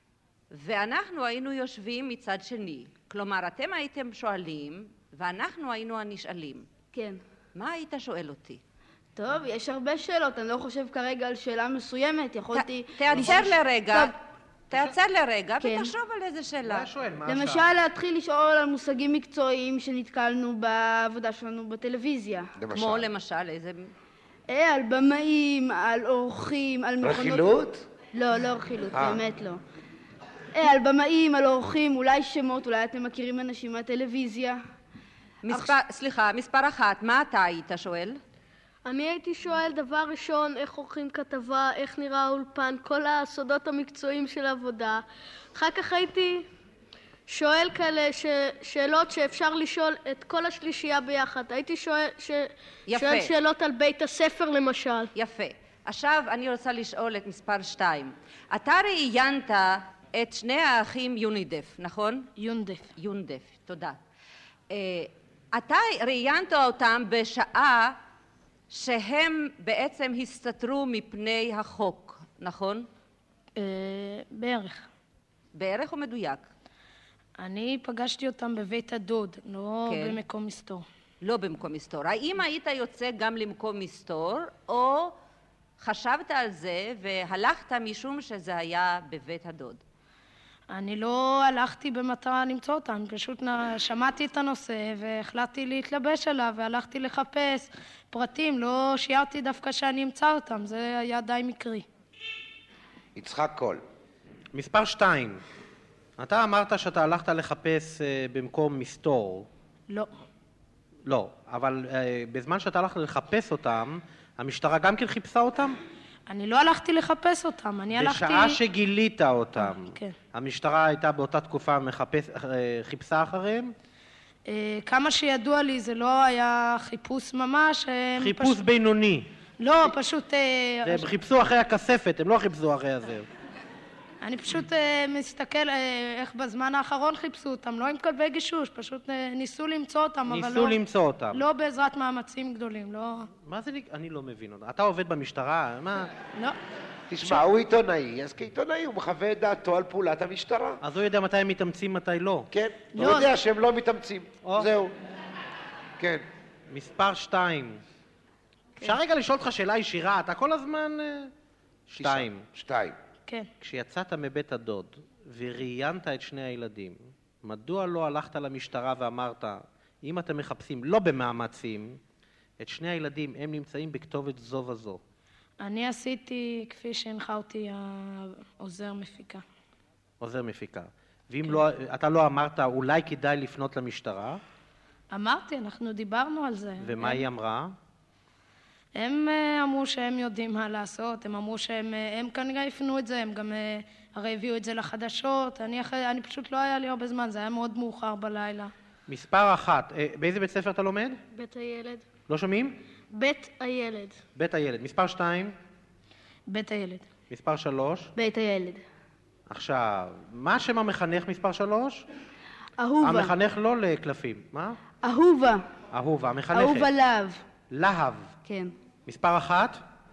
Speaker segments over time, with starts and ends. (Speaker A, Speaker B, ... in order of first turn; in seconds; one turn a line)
Speaker A: 0.5-6.7
Speaker B: 6.9-7.2
Speaker A: 7.5-8.6
Speaker B: 9.2-14.1
Speaker A: 12.5-14.2
Speaker A: 14.7-16.9
Speaker B: 15.6-15.9
Speaker C: 16.7-17.7
Speaker B: 17.3-22.5
Speaker D: 22.6-23.1
Speaker A: 22.7-23.9
Speaker B: 24.5-27.5
Speaker D: 27.0-27.9
Speaker B: 28.1-29.6
Speaker D: 28.9-29.2
Speaker B: 30.6-34.6
Speaker A: 35.4-38.2
Speaker E: 38.9-45.0
Speaker E: 45.5-46.5
Speaker E: 47.3-55.1
Speaker A: 52.9-53.3
Speaker A: 55.1-62.3
Speaker F: 62.4-62.9
Speaker A: 63.0-64.0
Speaker A: 64.7-68.0
Speaker A: 68.7-72.9
Speaker F: 73.6-74.9
Speaker A: 75.5-76.5
Speaker F: 77.4-80.9
Speaker A: 79.9-80.2
Speaker A: 81.2-85.2
Speaker A: 85.8-89.8
Speaker F: 90.7-101.9
Speaker D: 103.2-103.8
Speaker C: 104.5-105.4
Speaker C: 106.2-109.5
Speaker C: 111.0-115.8
Speaker F: 116.3-118.6
Speaker C: 118.0-123.8
Speaker F: 119.6-120.1
Speaker F: 124.5-128.6
Speaker C: 128.2-129.3
Speaker F: 129.6-131.1
Speaker C: 130.8-133.3
Speaker F: 134.2-140.8
Speaker C: 140.3-141.4
Speaker F: 141.3-143.3
Speaker C: 143.3-146.2
Speaker D: 147.1-150.8
Speaker C: 150.8-152.5
Speaker D: 152.5-154.9
Speaker F: 152.9-153.3
Speaker D: 156.0-156.3
Speaker C: 156.7-157.8
Speaker C: 158.8-161.3
Speaker C: 161.9-162.4
Speaker D: 162.0-163.0
Speaker C: 163.6-172.0
Speaker C: 172.6-175.0
Speaker F: 175.6-179.4
Speaker C: 180.2-184.4
Speaker F: 185.1-187.3
Speaker C: 186.8-187.8
Speaker F: 188.9-198.7
Speaker C: 199.1-201.2
Speaker E: 201.3-202.1
Speaker C: 202.3-202.8
Speaker E: 203.1-204.2
Speaker C: 204.4-205.6
Speaker F: 206.5-207.1
Speaker C: 207.3-208.1
Speaker B: 208.2-208.8
Speaker C: 209.5-212.1
Speaker B: 212.8-213.3
Speaker C: 213.0-214.8
Speaker B: 215.0-215.6
Speaker C: 215.9-216.9
Speaker B: 216.5-217.4
Speaker C: 217.7-218.3
Speaker B: 218.4-218.7
Speaker C: 219.1-219.8